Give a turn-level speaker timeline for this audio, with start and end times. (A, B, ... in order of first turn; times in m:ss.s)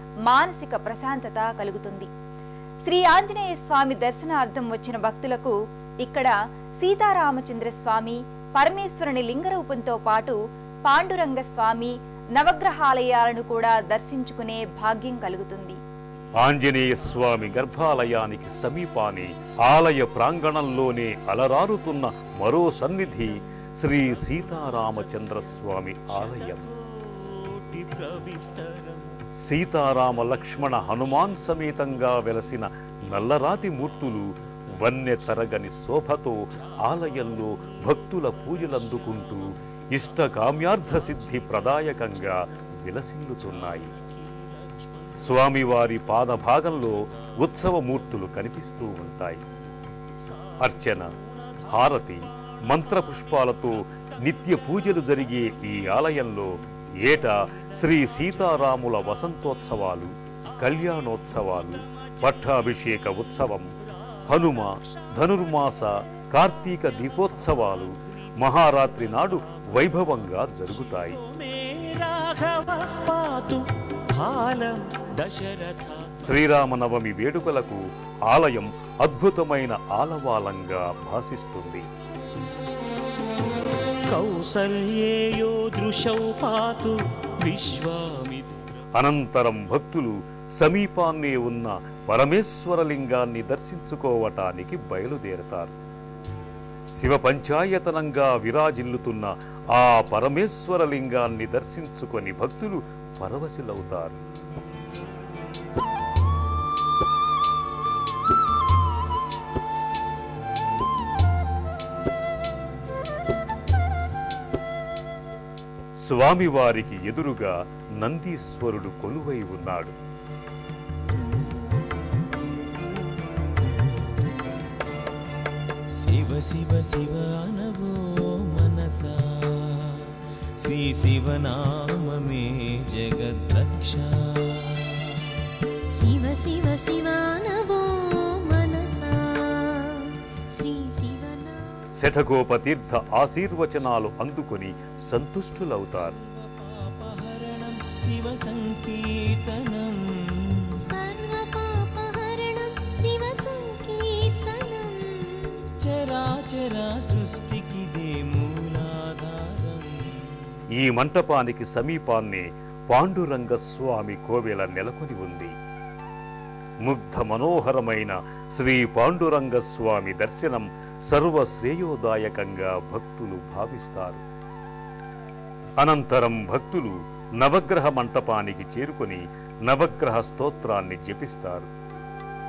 0:00.3-0:02.1 A
0:02.9-0:15.8 A
0:16.4-0:26.7 B
0:27.3-0:29.1 C
0:29.4-0:44.0 B
0:45.2-0:49.4 B
0:50.6-0:51.1 B
0:51.7-1:03.7 B
1:04.3-1:11.2 B
1:11.3-1:16.1 C
1:16.2-1:21.8 B
1:24.1-1:28.6 C
1:29.0-1:35.7 B
1:37.0-1:44.2 B
1:56.0-1:59.9 B
2:06.0-2:15.4 D
2:15.9-2:21.6 E
2:22.0-2:26.1 B
2:26.2-2:30.7 D
2:30.8-2:35.6 E
2:35.8-2:40.4 D
2:40.8-2:45.5 B
2:46.8-2:54.2 B
2:55.8-3:01.7 B